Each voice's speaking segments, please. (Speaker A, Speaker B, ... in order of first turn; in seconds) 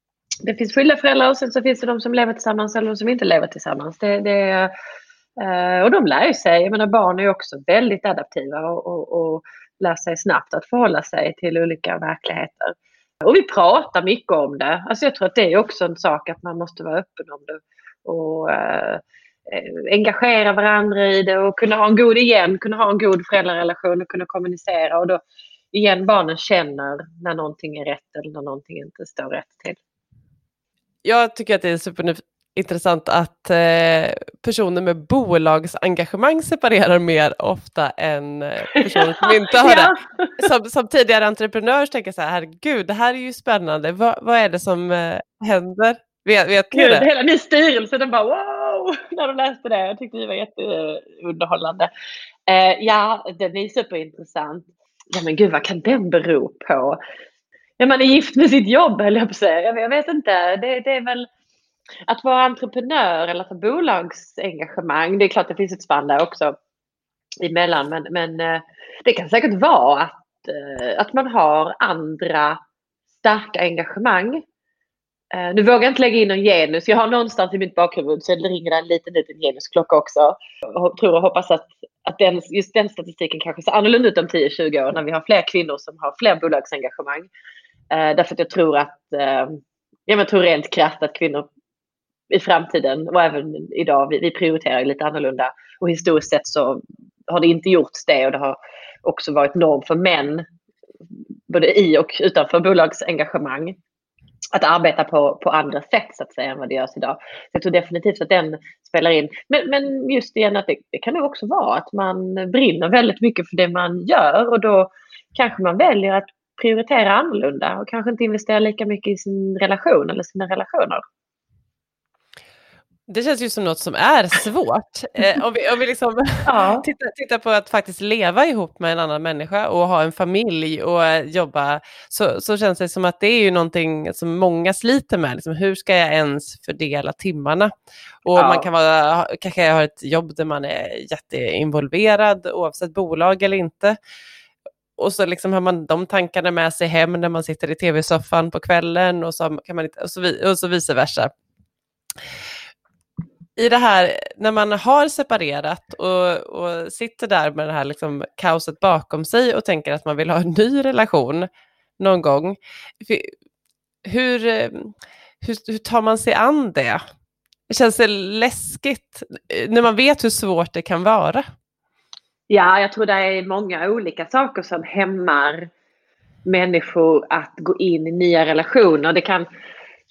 Speaker A: 0.5-4.7, 5.4-25.2, 25.7-29.8, 38.9-40.5, 46.7-51.9, 52.5-57.0, 57.8-61.3, 62.1-66.5, 67.4-72.6, 73.2-74.4, 75.3-87.3, 87.9-91.5, 92.3-100.5, 101.5-103.8, 104.5-121.0, 126.5-126.9, 138.4-138.7, 172.5-175.7, 176.5-179.5
Speaker B: 31.0-47.1, 123.1-137.7, 138.2-144.0, 145.0-151.3, 153.6-161.5, 162.0-163.3, 164.1-167.0, 167.7-171.4